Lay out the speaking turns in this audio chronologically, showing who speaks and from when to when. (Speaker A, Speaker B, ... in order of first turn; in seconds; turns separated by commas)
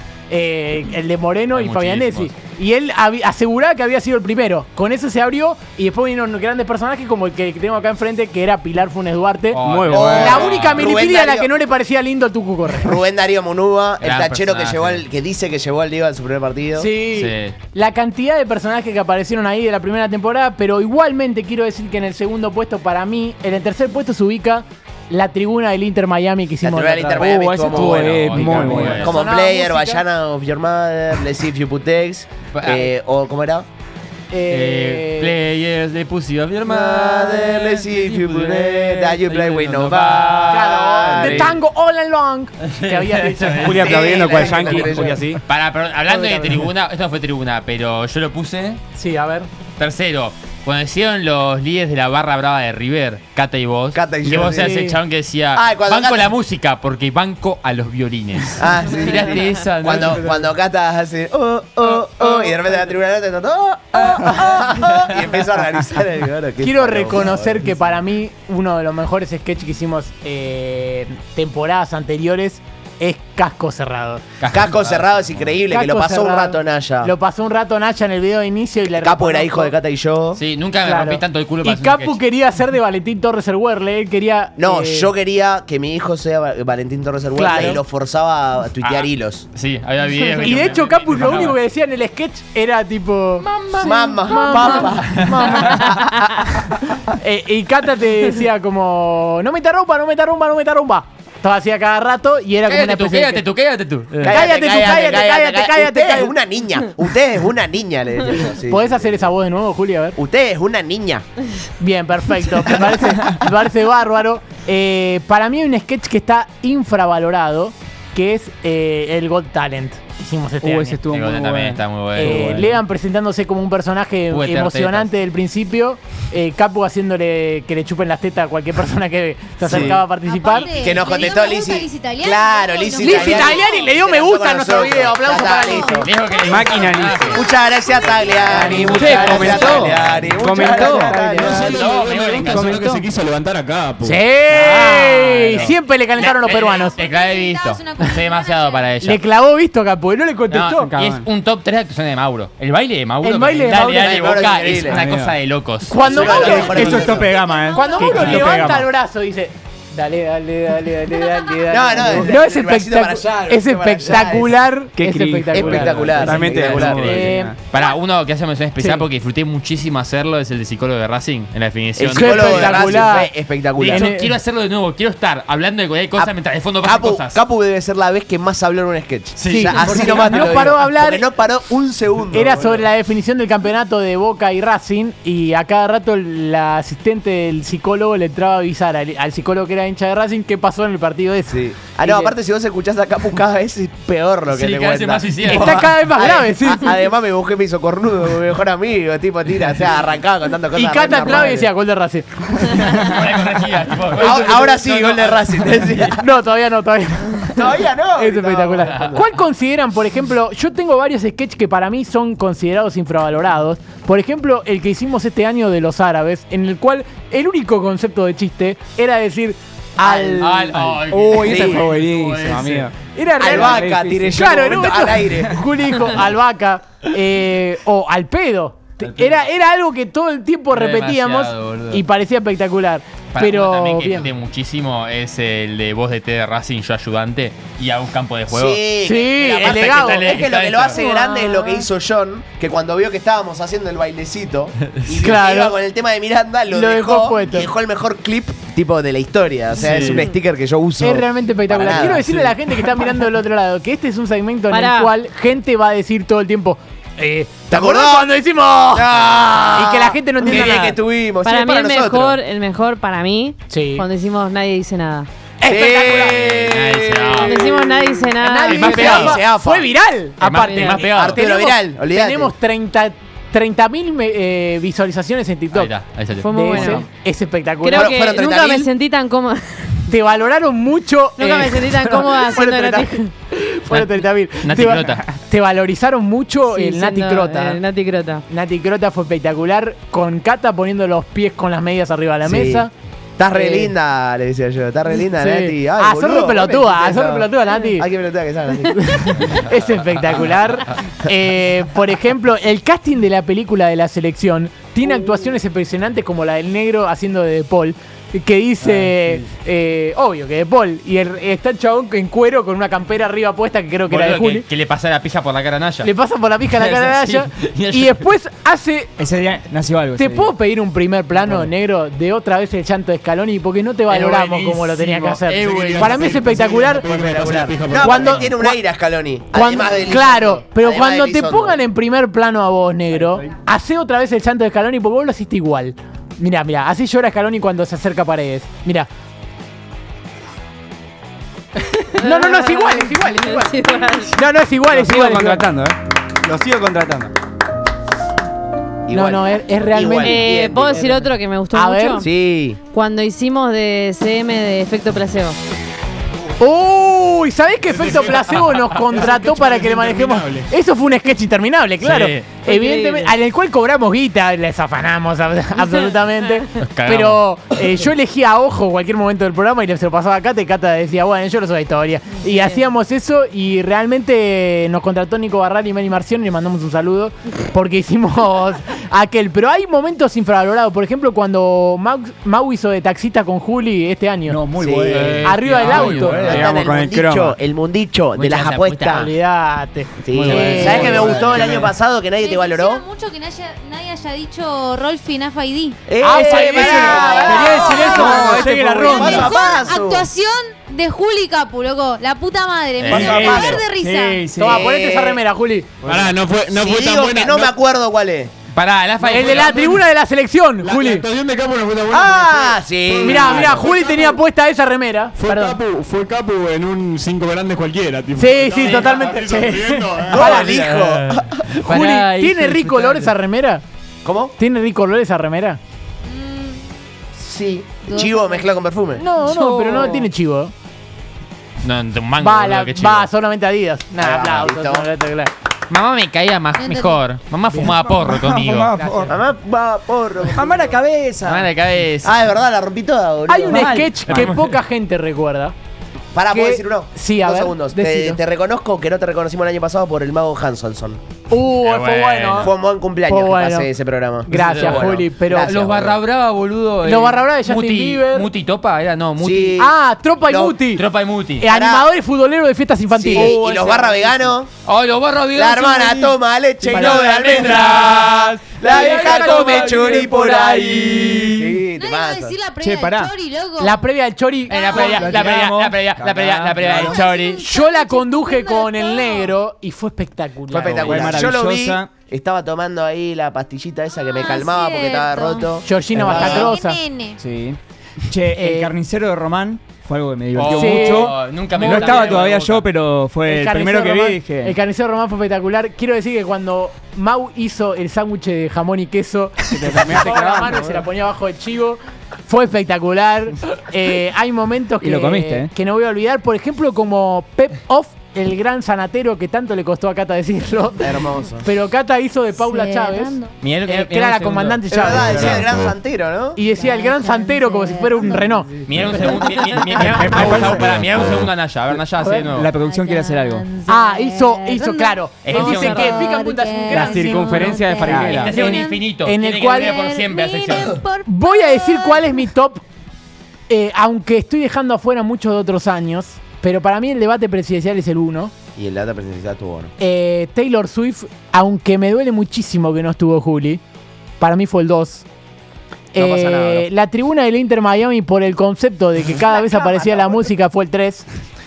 Speaker A: 0.3-13.0, Speaker B: 1.5-2.3, Speaker B: 9.5-10.9, Speaker C: 9.6-10.5, Speaker D: 9.9-11.5, Speaker D: 12.7-16.9, Speaker B: 14.0-15.0, Speaker A: 16.8-27.7, Speaker B: 17.1-17.6, Speaker D: 26.6-33.7, Speaker C: 27.2-29.1, Speaker B: 27.7-29.1, Speaker A: 28.6-30.0, Speaker B: 32.5-32.9, Speaker A: 34.3-35.4, Speaker B: 34.5-41.5, Speaker D: 36.6-41.6, Speaker A: 40.5-44.6, Speaker B: 42.8-48.8, Speaker C: 43.6-45.4, Speaker D: 43.6-45.2, Speaker A: 46.1-46.6, Speaker A: 49.0-49.5, Speaker B: 49.8-60.4, Speaker D: 53.9-54.8, Speaker A: 54.5-55.0, Speaker D: 55.5-56.3, Speaker D: 58.6-67.7, Speaker A: 64.1-64.5, Speaker A: 66.6-74.2, Speaker B: 74.4-75.5, Speaker D: 74.5-77.1, Speaker A: 75.7-79.7, Speaker D: 79.0-80.4, Speaker B: 80.4-82.2, Speaker A: 80.8-85.1, Speaker D: 84.6-89.5, Speaker A: 87.3-87.8, Speaker B: 88.8-91.6, Speaker A: 90.4-93.5, Speaker B: 93.5-93.8, Speaker D: 93.8-96.4, Speaker A: 94.1-96.0, Speaker E: 94.5-94.7, Speaker B: 94.8-95.9, Speaker A: 97.1-103.4, Speaker B: 102.7-104.3, Speaker D: 104.2-109.2, Speaker A: 104.3-106.3, Speaker A: 108.7-110.2, Speaker D: 110.2-111.2, Speaker A: 111.8-121.0, Speaker C: 120.6-122.8, Speaker B: 121.1-122.5, Speaker A: 122.2-130.7, Speaker B: 124.3-125.1, Speaker D: 129.6-130.1, Speaker F: 130.2-133.7, Speaker D: 130.7-136.1, Speaker A: 133.0-136.1, Speaker F: 135.4-139.9, Speaker B: 136.0-137.5, Speaker C: 136.4-137.4, Speaker D: 137.3-141.8, Speaker B: 138.5-140.0, Speaker C: 138.5-141.7, Speaker A: 138.9-139.9, Speaker A: 140.8-141.2, Speaker G: 141.2-144.2, Speaker B: 141.5-142.9, Speaker C: 142.4-143.0, Speaker A: 144.0-146.9, Speaker B: 144.5-145.7, Speaker C: 144.6-145.7, Speaker B: 146.2-149.2, Speaker F: 146.8-148.9, Speaker A: 149.0-150.9, Speaker B: 150.5-157.0, Speaker A: 153.2-154.3, Speaker D: 153.8-155.0, Speaker C: 154.9-155.3, Speaker A: 155.9-157.2, Speaker D: 156.0-157.3, Speaker F: 156.2-158.6, Speaker C: 156.3-158.9, Speaker A: 157.7-167.6, Speaker E: 158.3-158.7, Speaker D: 161.7-164.6, Speaker C: 164.9-167.6, Speaker D: 165.5-167.1, Speaker B: 166.8-173.1, Speaker A: 168.8-169.1, Speaker D: 172.0-174.1, Speaker A: 172.1-174.3, Speaker B: 173.8-177.4, Speaker D: 176.2-182.9, Speaker B: 179.4-180.7, Speaker A: 179.5-181.3, Speaker A: 182.3-192.3, Speaker D: 191.5-201.7, Speaker B: 194.5-195.8, Speaker A: 195.5-196.9, Speaker A: 200.7-203.1, Speaker B: 202.8-205.2, Speaker D: 204.2-206.2, Speaker A: 204.2-205.4, Speaker A: 205.9-220.8, Speaker D: 207.5-209.3, Speaker D: 220.0-220.5, Speaker B: 220.4-222.9, Speaker C: 220.8-222.9, Speaker D: 221.4-221.9, Speaker A: 223.1-234.3, Speaker D: 223.4-225.6, Speaker C: 223.5-224.5, Speaker B: 229.0-229.4, Speaker B: 230.7-232.0, Speaker B: 233.3-238.9, Speaker D: 238.5-252.6, Speaker A: 239.0-240.4, Speaker B: 239.5-241.0, Speaker A: 241.0-241.5, Speaker A: 245.1-245.8, Speaker A: 246.7-247.7, Speaker B: 249.7-250.2, Speaker A: 251.0-259.2, Speaker E: 254.7-255.1, Speaker D: 257.7-258.3, Speaker D: 258.9-262.4, Speaker A: 259.7-261.0, Speaker E: 261.4-265.3, Speaker A: 263.7-264.1, Speaker A: 265.6-266.5, Speaker D: 265.6-269.9, Speaker B: 266.2-267.7, Speaker E: 267.5-269.1, Speaker A: 268.4-275.9, Speaker B: 268.6-269.4, Speaker B: 270.4-271.4, Speaker E: 270.7-271.0, Speaker D: 271.0-272.5, Speaker B: 275.7-276.5, Speaker E: 276.4-277.0, Speaker A: 276.5-278.2, Speaker E: 277.8-280.0, Speaker D: 277.9-278.9, Speaker A: 280.1-287.8, Speaker E: 281.4-283.3, Speaker B: 283.9-285.2, Speaker E: 286.7-288.4, Speaker A: 288.5-292.9, Speaker D: 292.4-299.4, Speaker A: 293.5-293.9, Speaker A: 295.4-298.1, Speaker A: 299.0-314.7, Speaker B: 314.1-316.1, Speaker A: 316.0-319.1, Speaker B: 316.7-318.2, Speaker C: 319.2-320.5, Speaker A: 320.1-327.1, Speaker B: 324.1-326.5, Speaker G: 325.7-328.4, Speaker D: 327.0-331.8, Speaker A: 328.0-328.8, Speaker A: 329.5-339.1, Speaker A: 342.1-345.7, Speaker E: 342.2-344.4, Speaker C: 344.9-347.3, Speaker D: 349.1-351.1, Speaker A: 349.1-352.3, Speaker E: 350.2-352.3, Speaker D: 352.2-352.8, Speaker E: 352.9-355.6, Speaker A: 356.6-384.6, Speaker G: 357.9-360.7, Speaker B: 362.0-362.5, Speaker E: 362.6-363.3, Speaker B: 366.8-367.4, Speaker C: 384.5-387.6, Speaker D: 384.8-385.4, Speaker B: 385.1-386.7, Speaker A: 385.4-386.6, Speaker D: 386.4-389.3, Speaker B: 388.4-389.3, Speaker A: 389.1-391.4, Speaker D: 390.2-393.1, Speaker B: 390.3-391.9, Speaker C: 390.5-391.6, Speaker F: 392.4-396.0, Speaker D: 396.1-400.3, Speaker A: 396.2-399.5, Speaker E: 396.5-398.3, Speaker C: 396.8-399.4, Speaker F: 397.7-398.5, Speaker F: 399.0-404.4, Speaker B: 403.0-403.8, Speaker D: 403.1-403.9, Speaker C: 403.2-404.9, Speaker A: 404.6-405.9, Speaker D: 404.6-405.4, Speaker C: 406.0-406.3, Speaker G: 406.1-407.7, Speaker D: 406.8-408.5, Speaker B: 408.7-410.0, Speaker A: 409.3-411.3, Speaker G: 410.8-414.2, Speaker D: 412.1-413.8, Speaker A: 413.2-415.8, Speaker G: 415.4-420.5, Speaker A: 418.4-420.8, Speaker B: 418.8-419.4, Speaker D: 420.3-421.6, Speaker B: 420.5-423.3, Speaker A: 421.9-423.8, Speaker D: 424.2-424.5, Speaker A: 424.6-425.8, Speaker F: 426.3-426.8, Speaker D: 427.4-429.2, Speaker F: 428.1-428.7, Speaker A: 429.2-430.7, Speaker E: 429.9-430.2, Speaker B: 431.8-433.3, Speaker A: 432.4-435.5, Speaker D: 434.2-435.1, Speaker B: 435.9-438.9, Speaker F: 436.8-437.2, Speaker C: 437.8-439.4, Speaker A: 438.9-439.4, Speaker D: 439.3-441.0, Speaker C: 440.4-441.7, Speaker B: 441.4-442.4, Speaker D: 442.2-444.0, Speaker A: 443.5-445.7, Speaker C: 443.6-444.5, Speaker B: 444.3-444.5, Speaker D: 446.3-451.2, Speaker A: 446.5-448.4, Speaker A: 451.5-452.7, Speaker B: 451.8-452.7, Speaker D: 452.6-456.2, Speaker A: 453.3-453.9, Speaker A: 454.4-455.8, Speaker B: 454.5-459.9, Speaker A: 457.0-458.5, Speaker D: 459.4-460.8, Speaker A: 459.8-461.0, Speaker B: 460.9-461.7, Speaker A: 461.6-463.6, Speaker D: 461.7-462.1, Speaker D: 463.1-464.7, Speaker B: 463.3-464.0, Speaker B: 464.9-471.7, Speaker D: 465.5-472.6, Speaker A: 466.9-467.9, Speaker A: 468.8-471.0, Speaker C: 469.3-470.1, Speaker C: 470.7-471.6, Speaker F: 472.0-474.1, Speaker C: 472.8-473.3, Speaker A: 473.8-475.8, Speaker B: 474.7-477.6, Speaker F: 474.8-475.1, Speaker C: 474.9-477.2, Speaker F: 476.9-479.5, Speaker A: 477.6-481.3, Speaker D: 480.7-486.7, Speaker B: 480.9-481.4, Speaker C: 481.0-482.1, Speaker F: 484.2-485.7, Speaker A: 485.8-487.0, Speaker C: 486.1-486.7, Speaker F: 486.3-487.4, Speaker C: 487.4-494.8, Speaker A: 488.5-488.9, Speaker B: 490.5-492.8, Speaker A: 490.7-492.5, Speaker A: 493.4-515.6, Speaker C: 499.7-501.0, Speaker C: 505.0-505.7, Speaker D: 511.0-511.7, Speaker E: 512.7-513.3, Speaker B: 513.6-515.6, Speaker D: 514.9-516.6, Speaker G: 515.4-515.9, Speaker A: 516.6-519.5, Speaker E: 516.8-518.5, Speaker F: 516.9-517.3, Speaker B: 518.9-522.7, Speaker C: 520.0-521.5, Speaker G: 520.9-521.3, Speaker A: 522.2-522.5, Speaker C: 522.5-523.7, Speaker E: 522.8-524.9, Speaker F: 522.9-523.8, Speaker A: 523.9-527.8, Speaker F: 524.4-529.0, Speaker B: 525.4-526.3, Speaker E: 525.7-528.9, Speaker C: 526.9-528.6, Speaker B: 528.2-531.0, Speaker A: 528.6-530.0, Speaker F: 529.8-532.2, Speaker A: 531.2-532.8, Speaker A: 533.7-538.5, Speaker D: 538.8-539.9, Speaker A: 540.0-543.8, Speaker A: 544.4-545.3, Speaker A: 546.1-551.3, Speaker D: 546.1-546.9